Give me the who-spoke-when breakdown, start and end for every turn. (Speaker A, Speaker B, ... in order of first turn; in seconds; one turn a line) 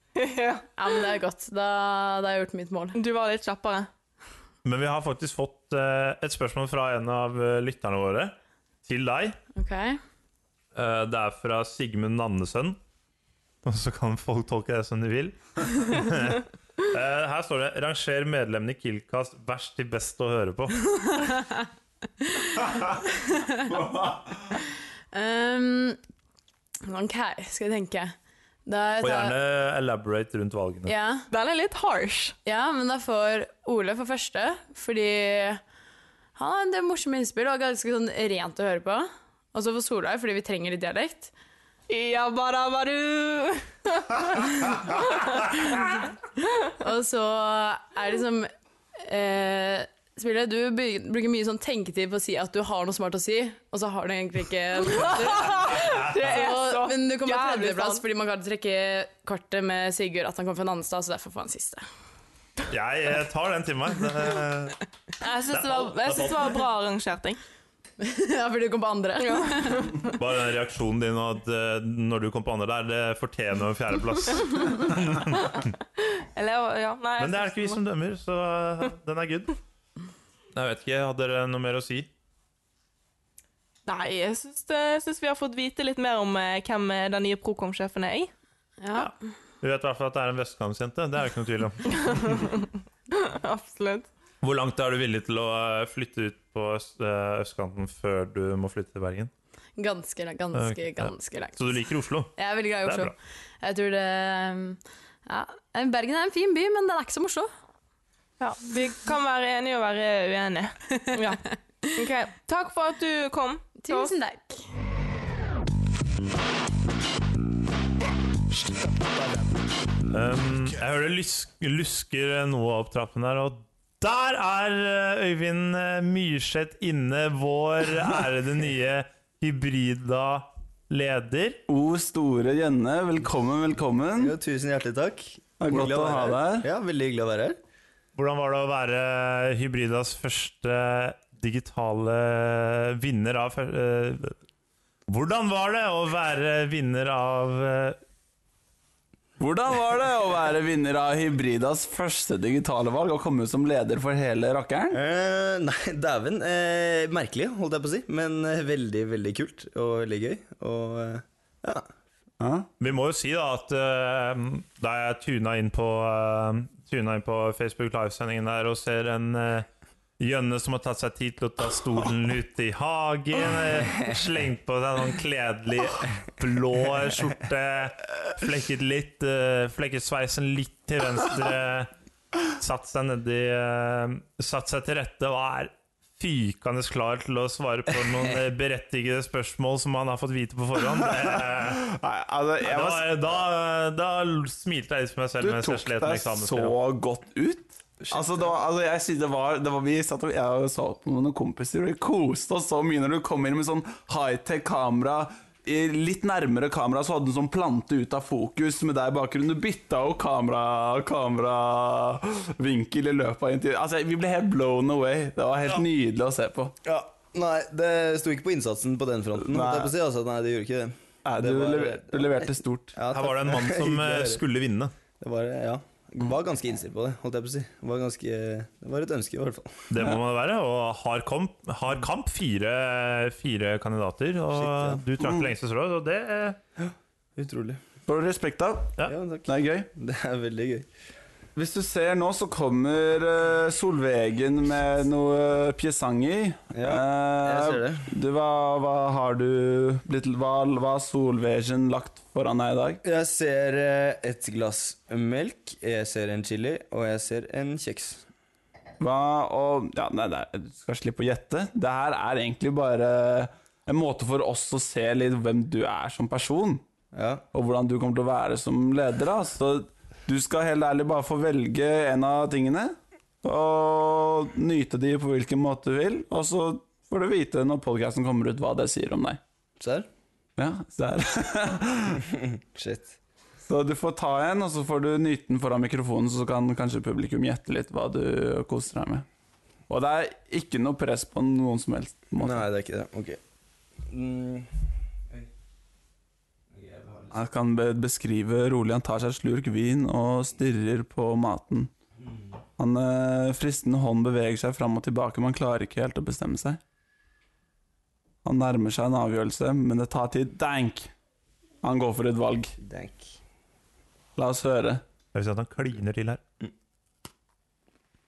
Speaker A: 0.2-1.0
Speaker B: 0.8-3.0
Speaker A: 3.0-3.9
Speaker C: 4.7-9.4
Speaker B: 9.6-10.0
Speaker C: 10.8-12.8
Speaker C: 13.7-20.9
Speaker B: 21.0-21.7
Speaker B: 22.2-23.9
Speaker D: 23.9-24.3
Speaker B: 25.1-26.0
Speaker B: 26.9-28.1
Speaker B: 28.7-29.4
Speaker C: 29.0-30.9
Speaker B: 30.9-31.3
Speaker A: 31.3-32.4
Speaker B: 32.5-35.6
Speaker B: 36.4-41.3
Speaker A: 41.9-45.6
Speaker B: 46.7-61.8
Speaker A: 54.9-58.0
Speaker C: 62.7-64.8
Speaker A: 65.2-67.4
Speaker C: 65.6-66.5
Speaker B: 68.0-70.2
Speaker A: 69.2-70.0
Speaker C: 70.1-75.7
Speaker A: 76.0-77.8
Speaker C: 77.2-79.6
Speaker C: 80.5-82.1
Speaker A: 83.9-88.3
Speaker B: 88.8-89.1
Speaker C: 89.6-92.2
Speaker A: 91.9-94.1
Speaker C: 94.4-99.3
Speaker B: 99.8-101.6
Speaker C: 100.5-103.1
Speaker B: 102.4-107.5
Speaker A: 108.4-114.2
Speaker B: 113.8-114.6
Speaker C: 120.1-131.6
Speaker D: 131.7-134.4
Speaker E: 134.2-137.6
Speaker D: 135.6-136.7
Speaker C: 138.2-144.4
Speaker C: 145.1-148.0
Speaker D: 149.4-155.0
Speaker E: 154.9-161.9
Speaker D: 162.4-162.7
Speaker C: 162.8-169.7
Speaker C: 170.2-181.9
Speaker C: 182.5-191.8
Speaker D: 190.9-193.1
Speaker C: 192.6-196.8
Speaker D: 195.4-216.7
Speaker E: 198.0-198.4
Speaker E: 216.8-224.4
Speaker D: 219.4-219.9
Speaker D: 221.2-223.0
Speaker C: 223.1-224.9
Speaker E: 225.2-229.9
Speaker C: 229.9-236.6
Speaker E: 234.5-235.0
Speaker D: 235.2-235.5
Speaker E: 236.8-237.8
Speaker D: 238.1-239.9
Speaker E: 239.1-240.9
Speaker D: 241.6-253.0
Speaker E: 246.7-248.1
Speaker E: 253.0-258.2
Speaker D: 259.0-266.8
Speaker E: 267.1-267.4
Speaker D: 267.5-279.4
Speaker E: 279.8-280.1
Speaker D: 280.6-282.2
Speaker E: 282.7-283.1
Speaker D: 283.6-289.2
Speaker D: 289.9-292.7
Speaker E: 292.4-293.4
Speaker E: 294.1-295.5
Speaker E: 296.7-297.4
Speaker D: 297.3-301.9
Speaker D: 302.8-306.8
Speaker D: 308.4-311.1
Speaker D: 311.8-312.7
Speaker E: 312.8-313.4
Speaker D: 314.4-315.0
Speaker C: 315.3-316.4